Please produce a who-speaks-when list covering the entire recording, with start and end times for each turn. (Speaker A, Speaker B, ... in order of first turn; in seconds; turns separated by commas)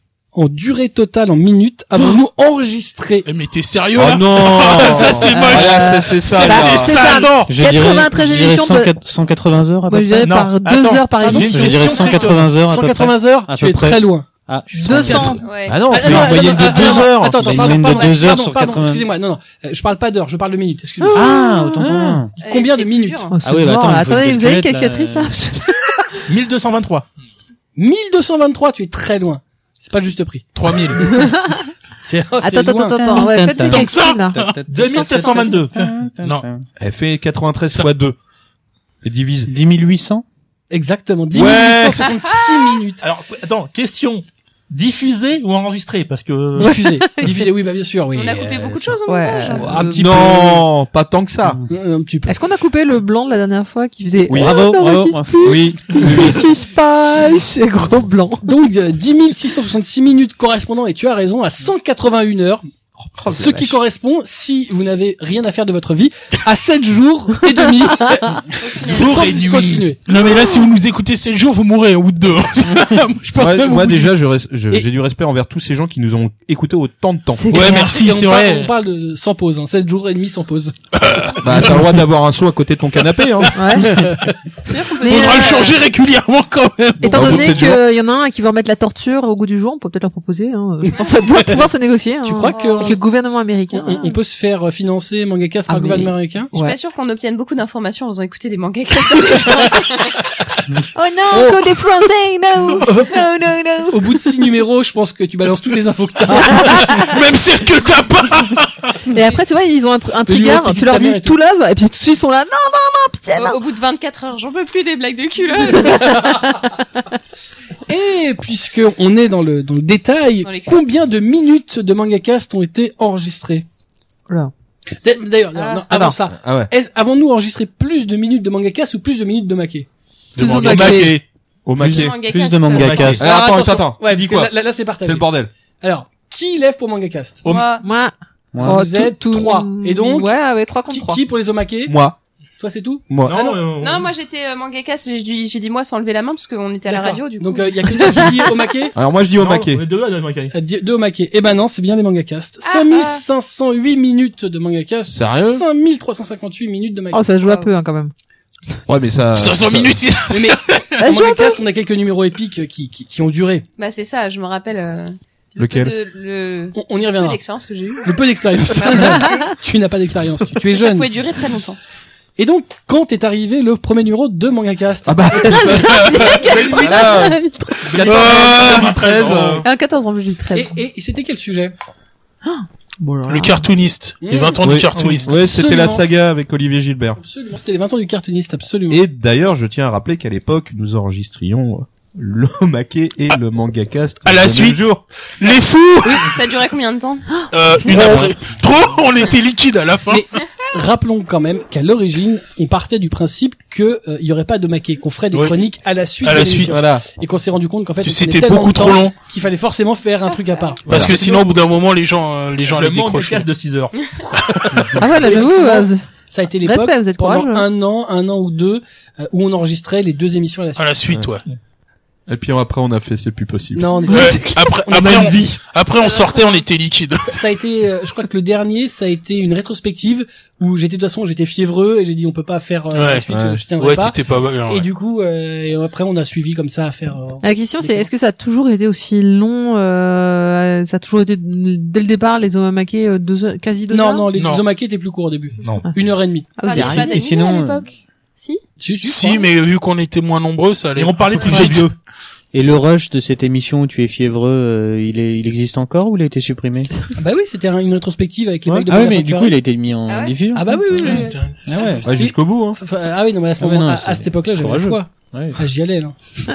Speaker A: 0.3-3.2, Speaker B: 3.2-7.5, Speaker C: 4.0-7.1, Speaker D: 5.4-8.9, Speaker E: 7.4-10.2, Speaker D: 9.9-12.3, Speaker F: 10.1-12.5, Speaker A: 11.2-21.3, Speaker E: 11.3-15.5, Speaker D: 14.8-15.4, Speaker C: 15.1-17.7, Speaker G: 15.4-17.1, Speaker E: 16.0-16.3, Speaker E: 17.2-19.1, Speaker D: 21.0-21.9, Speaker E: 21.1-22.3, Speaker C: 21.8-22.2, Speaker A: 22.4-23.3, Speaker G: 22.4-23.3, Speaker D: 23.3-26.1, Speaker E: 23.4-25.4, Speaker F: 26.3-27.1, Speaker A: 27.8-31.2, Speaker B: 30.6-31.0, Speaker D: 31.1-31.6, Speaker A: 32.1-33.3, Speaker D: 32.4-35.5, Speaker E: 33.0-36.6, Speaker B: 33.6-34.6, Speaker F: 34.7-35.8, Speaker G: 35.0-35.7, Speaker B: 35.8-36.4, Speaker C: 36.8-38.2, Speaker C: 39.0-39.5, Speaker E: 39.5-40.2, Speaker A: 40.7-43.0, Speaker C: 41.3-42.1, Speaker F: 43.0-46.8, Speaker A: 46.6-49.0, Speaker D: 46.6-47.4, Speaker G: 48.1-49.9, Speaker D: 49.1-50.1, Speaker A: 49.6-50.7, Speaker C: 50.0-51.6, Speaker A: 51.7-52.4, Speaker D: 52.3-58.5, Speaker C: 54.3-56.4, Speaker E: 54.3-55.8, Speaker A: 58.4-62.7, Speaker D: 63.2-63.8, Speaker A: 63.3-70.0, Speaker G: 68.6-69.8, Speaker B: 68.8-74.1, Speaker C: 73.4-77.4, Speaker D: 77.3-77.9, Speaker B: 77.5-78.7, Speaker A: 77.5-80.8, Speaker B: 80.9-81.9, Speaker C: 81.4-84.1, Speaker D: 83.5-83.9, Speaker A: 83.9-84.3, Speaker G: 84.6-85.8, Speaker B: 84.9-87.7, Speaker D: 85.0-85.7, Speaker C: 87.0-87.8, Speaker D: 87.0-94.2, Speaker A: 90.9-91.6, Speaker A: 92.2-93.0, Speaker G: 92.5-93.0, Speaker A: 93.7-96.5, Speaker D: 95.7-96.8, Speaker G: 96.5-100.2, Speaker D: 100.9-104.4, Speaker A: 101.3-101.6, Speaker A: 103.9-107.0, Speaker D: 106.4-106.9, Speaker B: 106.9-109.0, Speaker D: 109.1-113.6, Speaker A: 110.3-111.3, Speaker G: 113.4-116.2, Speaker A: 115.7-116.6, Speaker A: 117.9-123.7, Speaker G: 120.4-120.8, Speaker A: 124.9-129.9, Speaker G: 125.5-125.8, Speaker D: 125.9-126.2, Speaker C: 126.3-126.7, Speaker B: 130.4-131.1, Speaker D: 130.4-131.2, Speaker F: 130.5-131.2, Speaker C: 130.6-132.2, Speaker E: 131.8-133.2, Speaker G: 131.8-133.1, Speaker F: 132.8-133.2, Speaker C: 132.8-135.5, Speaker A: 133.2-135.3, Speaker A: 135.8-137.4, Speaker G: 137.4-137.8, Speaker D: 137.8-141.2, Speaker E: 138.5-138.8, Speaker A: 138.6-140.4, Speaker A: 140.9-142.0, Speaker C: 141.9-142.2, Speaker A: 142.6-143.6, Speaker C: 143.1-143.4, Speaker F: 143.2-144.1, Speaker G: 143.8-148.2, Speaker A: 146.9-148.9, Speaker C: 148.9-149.8, Speaker F: 149.4-150.6, Speaker A: 150.5-157.4, Speaker G: 152.6-153.2, Speaker C: 155.1-155.6, Speaker D: 157.1-158.1, Speaker C: 158.9-160.0, Speaker B: 159.4-161.0, Speaker A: 160.3-163.7, Speaker D: 161.0-161.6, Speaker G: 163.8-169.5, Speaker C: 165.6-165.9, Speaker A: 166.8-167.4, Speaker A: 168.0-171.1, Speaker G: 170.7-171.8, Speaker A: 172.4-175.8, Speaker C: 175.1-176.0, Speaker D: 175.3-177.9, Speaker B: 175.8-176.3, Speaker F: 176.4-177.2, Speaker C: 176.7-177.4, Speaker F: 177.9-179.6, Speaker C: 177.9-179.7, Speaker B: 178.0-179.0, Speaker D: 179.6-180.8, Speaker A: 180.5-181.8, Speaker D: 182.4-183.7, Speaker B: 183.3-185.4, Speaker A: 184.2-184.6, Speaker C: 184.6-187.2, Speaker F: 184.9-185.2, Speaker A: 185.3-186.1, Speaker A: 187.2-189.0, Speaker C: 188.9-195.0, Speaker B: 194.2-196.4, Speaker G: 196.0-197.3, Speaker B: 197.5-200.3, Speaker C: 197.9-198.3, Speaker A: 200.1-211.5, Speaker B: 205.3-205.6, Speaker B: 206.2-206.8, Speaker C: 206.7-207.0, Speaker B: 208.0-209.2, Speaker G: 210.3-210.7, Speaker B: 210.9-213.5, Speaker C: 210.9-211.2, Speaker F: 212.7-214.1, Speaker A: 214.2-220.9, Speaker D: 215.0-216.1, Speaker D: 216.6-217.7, Speaker B: 220.8-221.4, Speaker C: 222.3-224.0, Speaker A: 223.8-225.6, Speaker B: 224.1-227.4, Speaker G: 226.0-226.7, Speaker A: 227.3-238.1, Speaker B: 232.9-234.9, Speaker C: 233.3-233.6, Speaker D: 237.4-244.2, Speaker A: 243.9-246.5, Speaker B: 244.3-244.6, Speaker F: 245.6-245.9, Speaker D: 246.6-247.2, Speaker G: 246.6-248.6, Speaker E: 246.7-247.9, Speaker A: 248.8-249.5, Speaker B: 249.0-251.9, Speaker F: 250.9-251.9, Speaker E: 252.5-256.9, Speaker A: 257.2-259.6, Speaker C: 258.6-258.9, Speaker E: 258.9-262.1, Speaker G: 260.1-260.4, Speaker A: 260.5-266.1, Speaker B: 260.9-261.9, Speaker C: 262.0-262.8, Speaker E: 263.6-265.6